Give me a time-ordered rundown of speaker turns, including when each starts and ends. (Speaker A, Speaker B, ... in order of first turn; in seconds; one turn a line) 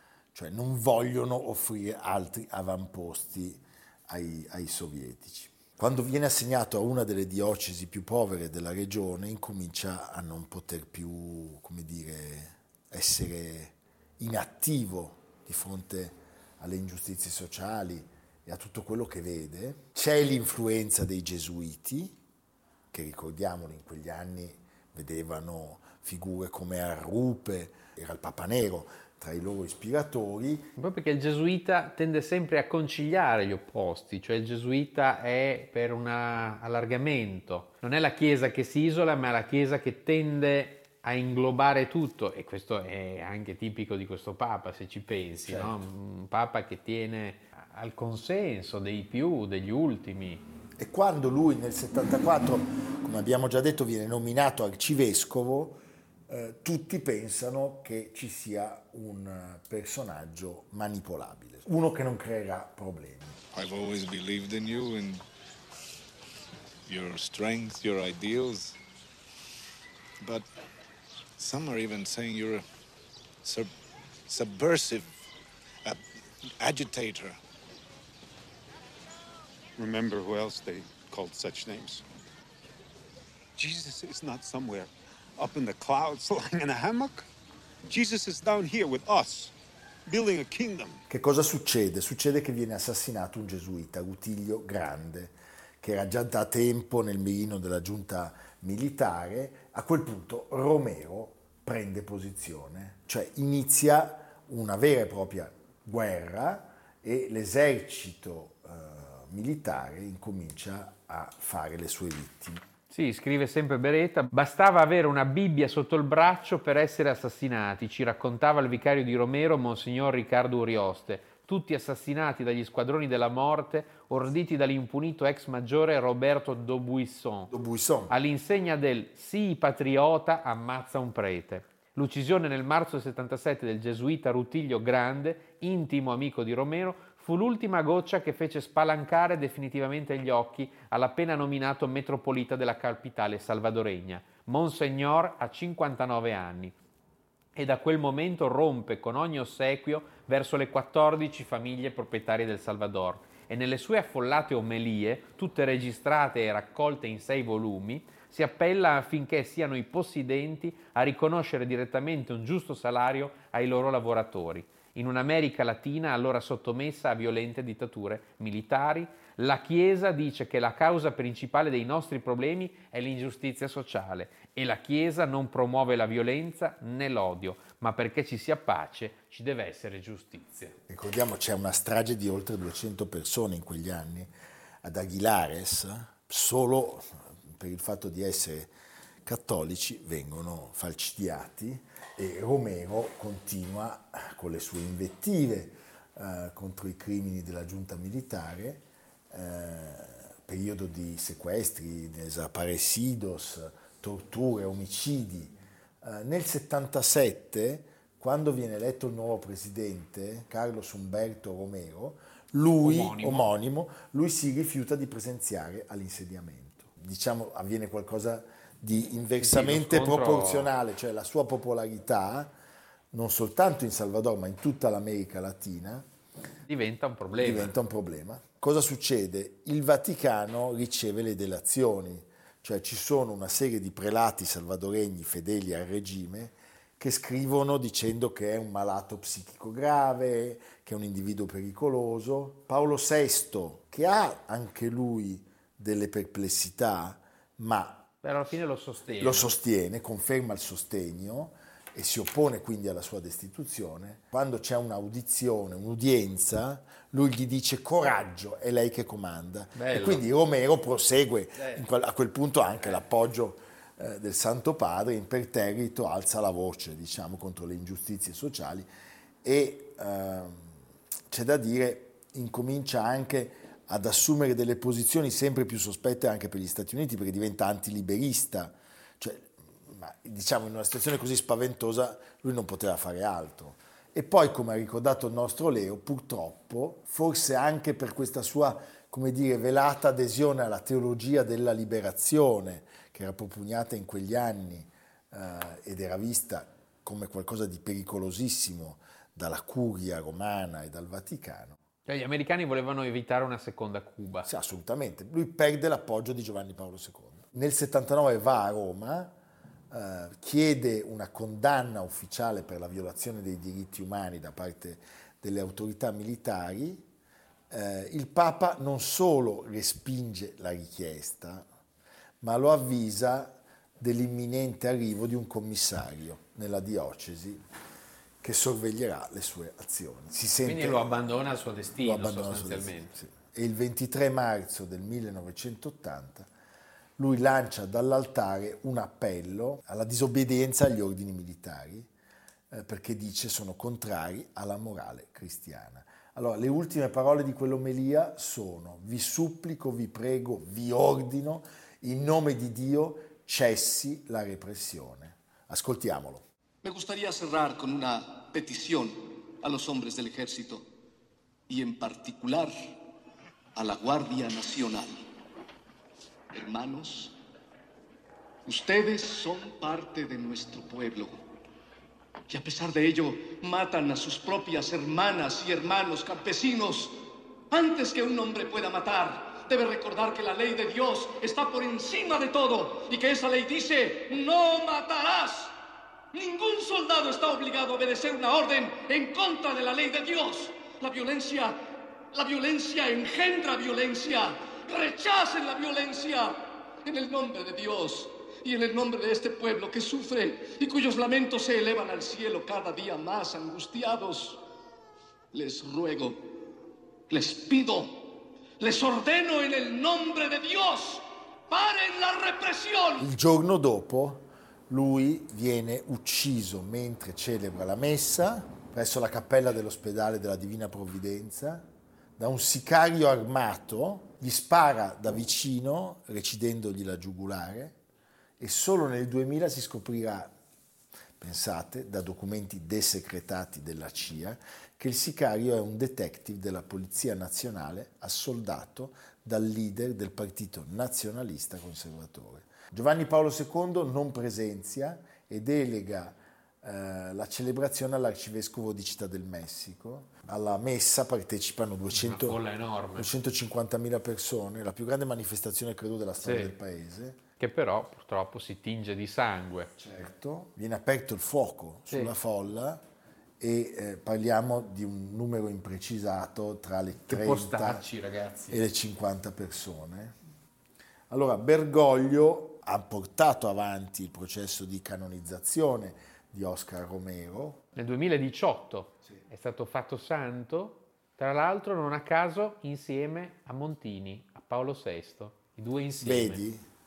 Speaker A: 0.3-22.1
Speaker A: 22.9-30.7
Speaker B: 30.8-50.4
Speaker A: 45.4-45.8
Speaker A: 50.8-63.4
Speaker C: 63.5-65.2
Speaker C: 66.8-68.8
Speaker C: 70.2-70.5
Speaker C: 71.4-72.6
Speaker C: 73.4-73.7
Speaker C: 74.3-75.2
Speaker C: 76.6-77.4
Speaker D: 79.8-82.0
Speaker D: 83.6-87.2
Speaker D: 87.9-89.5
Speaker D: 90.0-91.0
Speaker A: 91.1-112.6
Speaker B: 112.9-127.5
Speaker A: 127.5-128.1
Speaker B: 128.1-146.7
Speaker B: 147.5-180.8
Speaker A: 180.9-184.3
Speaker A: 184.8-188.7
Speaker A: 189.2-222.5
Speaker B: 212.8-213.5
Speaker B: 219.4-220.7
Speaker A: 223.1-226.1
Speaker B: 226.7-227.7
Speaker A: 227.3-248.1
Speaker B: 248.2-249.5
Speaker A: 249.2-268.9
Speaker B: 259.7-260.2
Speaker A: 269.4-301.8
Speaker B: 302.1-304.5
Speaker A: 304.4-309.3
Speaker A: 309.9-317.1
Speaker A: 317.7-321.7
Speaker A: 322.4-327.6
Speaker A: 328.4-331.2
Speaker B: 330.6-333.2
Speaker A: 332.0-336.5
Speaker A: 337.2-342.1
Speaker A: 342.7-356.4
Speaker E: 356.8-360.9
Speaker E: 361.7-362.7
Speaker E: 363.7-365.2
Speaker E: 366.5-367.4
Speaker E: 368.6-371.3
Speaker E: 372.5-377.1
Speaker E: 377.7-385.7
Speaker E: 386.3-391.8
Speaker E: 392.3-404.6
Speaker E: 405.5-406.5
Speaker E: 407.3-413.3
Speaker A: 413.2-428.0
Speaker A: 428.6-430.5
Speaker A: 431.4-452.6
Speaker B: 452.1-453.3
Speaker A: 453.1-457.4
Speaker B: 456.4-456.7
Speaker B: 457.6-459.9
Speaker A: 460.0-463.0
Speaker A: 463.6-468.0
Speaker B: 467.3-468.8
Speaker A: 468.7-470.3
Speaker A: 471.3-477.8
Speaker B: 477.9-486.6
Speaker A: 486.2-486.8